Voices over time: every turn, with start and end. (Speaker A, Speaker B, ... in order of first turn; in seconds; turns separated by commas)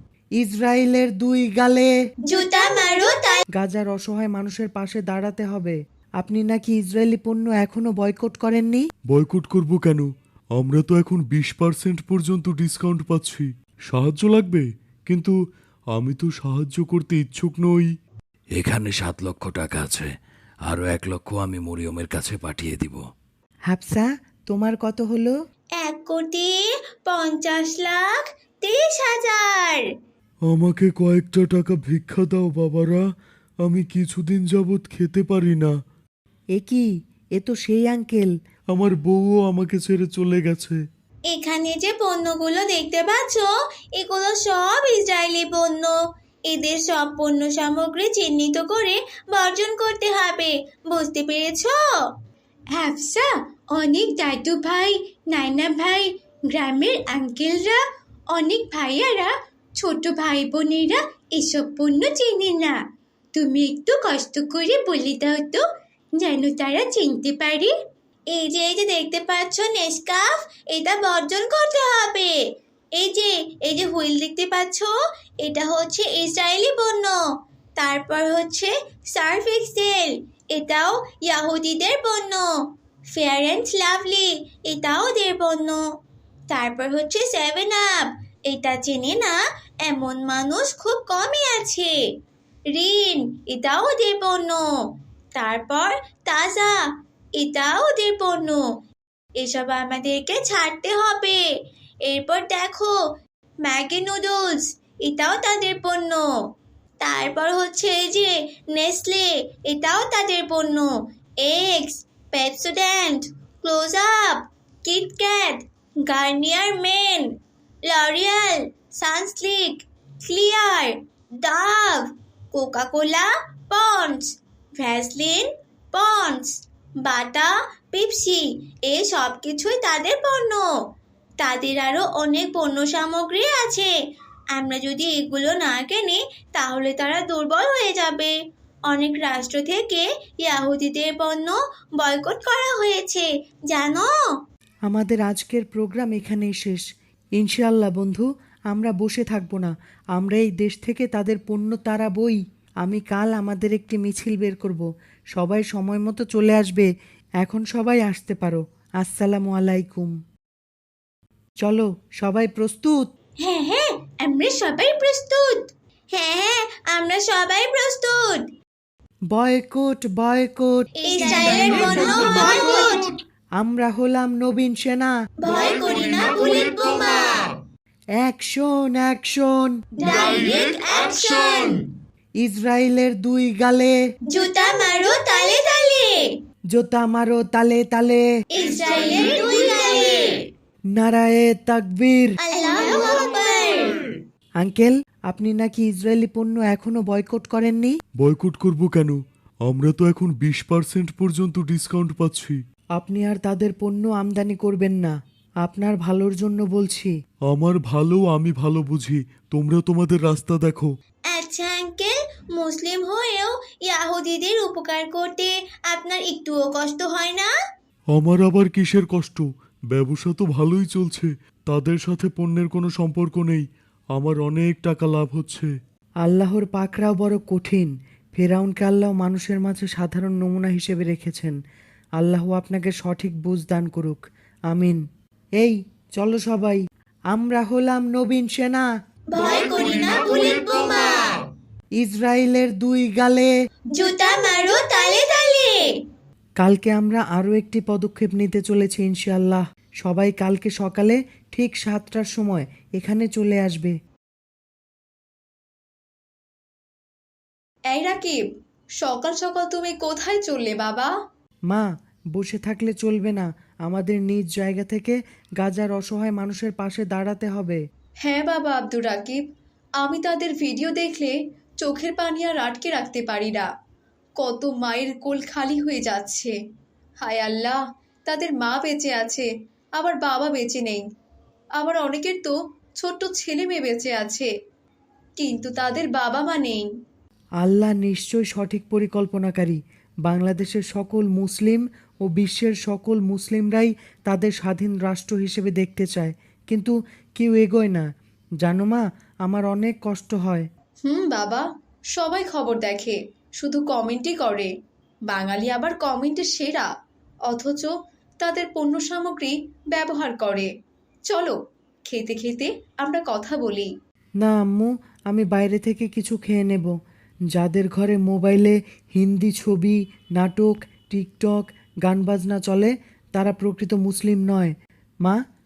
Speaker A: 0.4-1.9, Speaker B: 2.3-3.4, Speaker A: 3.6-8.9, Speaker C: 9.1-15.3, Speaker C: 15.9-17.9, Speaker D: 18.6-20.1, Speaker D: 20.7-23.0, Speaker A: 23.7-25.3, Speaker B: 25.8-26.6, Speaker B: 27.1-28.1, Speaker B: 28.6-29.8, Speaker C: 30.5-33.0, Speaker C: 33.6-35.7, Speaker A: 36.6-36.9, Speaker A: 37.4-38.3, Speaker C: 38.7-40.8, Speaker B: 41.3-46.0, Speaker B: 46.5-51.8, Speaker B: 52.7-57.8, Speaker B: 58.3-62.8, Speaker B: 63.4-65.6, Speaker B: 66.2-67.7, Speaker B: 68.3-72.3, Speaker B: 73.0-74.9, Speaker B: 75.4-77.2, Speaker B: 77.8-82.5, Speaker B: 83.1-85.8, Speaker B: 86.5-89.4, Speaker B: 89.9-91.9, Speaker B: 92.8-94.6, Speaker B: 95.4-96.7, Speaker B: 97.4-98.6, Speaker B: 99.4-101.4, Speaker B: 102.1-102.9, Speaker B: 103.7-106.2, Speaker B: 107.0-110.9, Speaker B: 111.4-117.3, Speaker B: 117.9-124.2, Speaker B: 124.8-126.5, Speaker B: 127.0-130.6, Speaker B: 131.4-133.9, Speaker B: 134.6-138.3, Speaker B: 138.9-144.1, Speaker A: 144.9-146.8, Speaker A: 147.4-156.9, Speaker A: 157.4-160.1, Speaker A: 161.6-163.0, Speaker B: 163.4-168.4, Speaker A: 169.3-170.8, Speaker B: 171.0-173.2, Speaker A: 173.6-175.1, Speaker B: 175.4-177.5, Speaker A: 178.2-179.8, Speaker B: 180.0-181.9, Speaker A: 182.4-183.9, Speaker B: 184.3-186.2, Speaker A: 186.8-188.2, Speaker B: 188.6-190.3, Speaker A: 190.9-192.3, Speaker B: 192.4-194.0, Speaker A: 194.6-197.9, Speaker C: 198.2-202.6, Speaker A: 203.0-205.1, Speaker A: 205.6-207.1, Speaker C: 207.5-210.9, Speaker B: 211.3-217.5, Speaker C: 218.1-225.7, Speaker A: 226.2-231.6, Speaker A: 232.2-234.2, Speaker A: 234.7-235.0, Speaker A: 235.6-236.8, Speaker A: 237.3-238.9, Speaker B: 239.3-241.4, Speaker A: 242.0-243.5, Speaker B: 244.0-245.8, Speaker A: 246.6-253.9, Speaker E: 257.9-258.4, Speaker E: 259.0-261.1, Speaker A: 261.7-267.8, Speaker E: 268.2-269.4, Speaker E: 270.0-273.7, Speaker E: 274.4-276.6, Speaker E: 277.2-281.1, Speaker E: 281.8-284.5, Speaker E: 285.4-286.9, Speaker A: 287.6-298.1, Speaker A: 298.6-300.7, Speaker E: 301.1-304.7, Speaker E: 305.3-306.9, Speaker E: 307.5-310.7, Speaker E: 311.3-311.6, Speaker E: 312.1-313.9, Speaker A: 314.4-316.9, Speaker A: 317.5-324.7